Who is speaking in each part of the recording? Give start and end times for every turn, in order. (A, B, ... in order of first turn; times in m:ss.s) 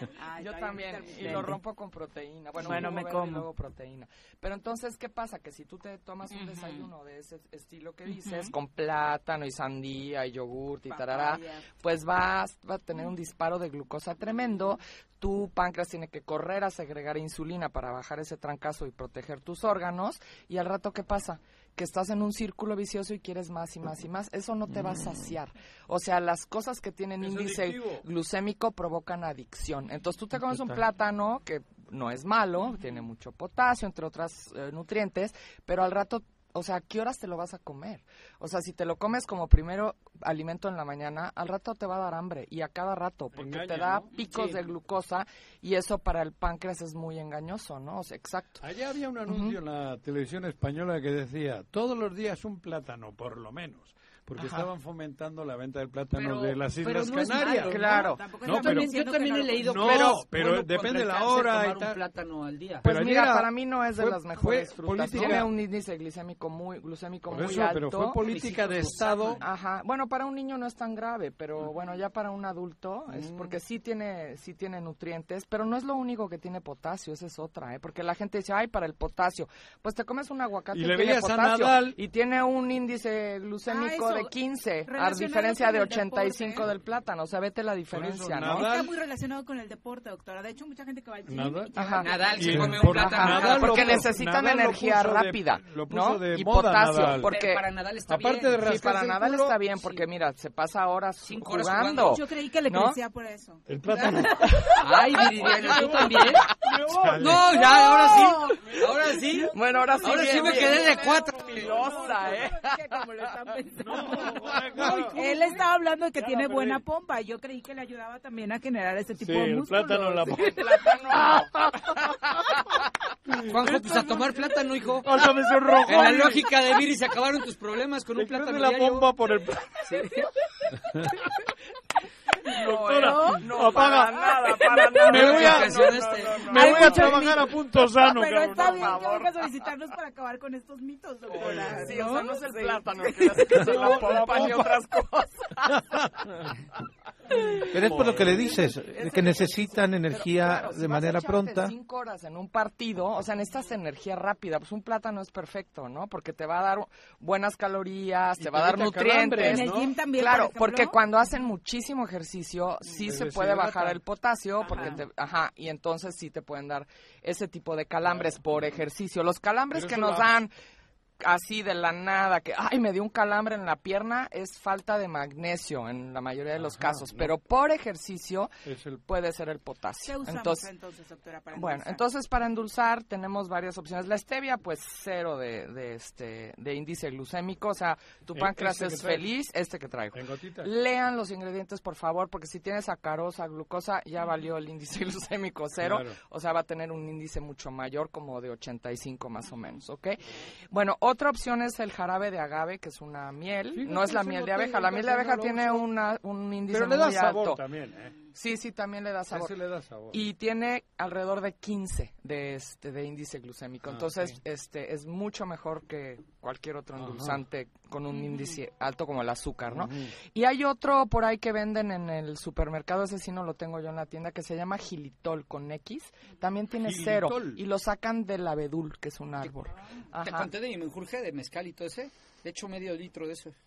0:00.2-0:01.6 A
0:00.4-0:48.6 B
0:02.6-0:03.5 A
0:06.3-0:06.9 A
0:08.1-0:08.5 A
0:10.9-0:11.7 A
0:24.7-0:25.0 C
0:27.2-0:28.0 D
0:30.5-0:30.8 C
0:43.3-0:44.6 D
0:48.6-0:57.8 D
0:49.2-0:49.6 B
0:54.4-0:54.7 B
0:56.1-0:57.8 E
0:57.4-0:59.8 A
0:57.5-0:58.3 B
0:58.4-0:58.9 D
0:58.5-1:02.8 E
0:59.6-1:02.0 D
0:59.8-1:00.3 B
1:02.8-1:08.3 B
1:02.8-1:05.6 D
1:07.3-1:09.4 D
1:08.2-1:09.4 E
1:09.4-1:28.7 B
1:13.1-1:13.6 D
1:20.7-1:22.0 D
1:23.7-1:26.7 A
1:27.9-1:28.9 D
1:28.5-1:33.2 A
1:31.3-1:31.8 D
1:31.7-1:37.6 B
1:32.0-1:34.1 E
1:32.4-1:37.3 D
1:37.2-1:38.9 E
1:38.1-1:39.5 D
1:38.5-1:43.0 B
1:39.7-1:40.0 E
1:41.2-1:42.2 E
1:42.0-1:44.5 A
1:43.7-1:44.4 D
1:44.4-1:44.8 B
1:44.8-1:46.5 E
1:45.4-1:47.7 D
1:47.1-1:51.6 E
1:47.9-1:48.2 A
1:49.5-1:53.0 B
1:50.0-2:00.3 A
1:53.8-1:55.6 D
1:54.8-1:55.2 B
1:56.2-1:56.8 D
1:59.2-2:01.9 D
2:00.1-2:02.6 B
2:03.3-2:04.4 D
2:03.5-2:05.1 E
2:05.0-2:06.4 D
2:05.8-2:09.1 E
2:08.1-2:09.8 D
2:09.8-2:10.3 E
2:12.4-2:19.0 D
2:12.5-2:17.2 B
2:13.0-2:13.4 A
2:15.1-2:16.6 E
2:16.5-2:23.6 A
2:18.5-2:19.5 B
2:21.4-2:22.1 D
2:21.4-2:25.8 B
2:23.3-2:24.7 D
2:27.7-2:31.7 C
2:27.8-2:28.5 D
2:27.9-2:50.5 B
2:38.4-2:39.9 D
2:39.4-2:41.0 A
2:42.9-2:44.0 D
2:44.6-2:45.0 A
2:44.7-2:45.0 D
2:48.1-2:48.3 D
2:49.7-2:50.3 D
2:51.2-2:58.5 B
2:56.6-2:57.3 D
2:58.6-2:59.0 D
2:59.0-3:00.7 B
3:00.0-3:02.0 A
3:01.5-3:27.7 B
3:08.3-3:09.3 D
3:10.1-3:10.7 D
3:15.8-3:16.2 D
3:23.7-3:25.9 D
3:26.7-3:28.2 D
3:28.3-3:29.6 B
3:29.3-3:30.2 D
3:30.1-3:50.5 B
3:33.8-3:34.4 D
3:37.0-3:37.4 D
3:39.7-3:40.1 D
3:46.8-3:47.6 D
3:50.2-3:53.5 E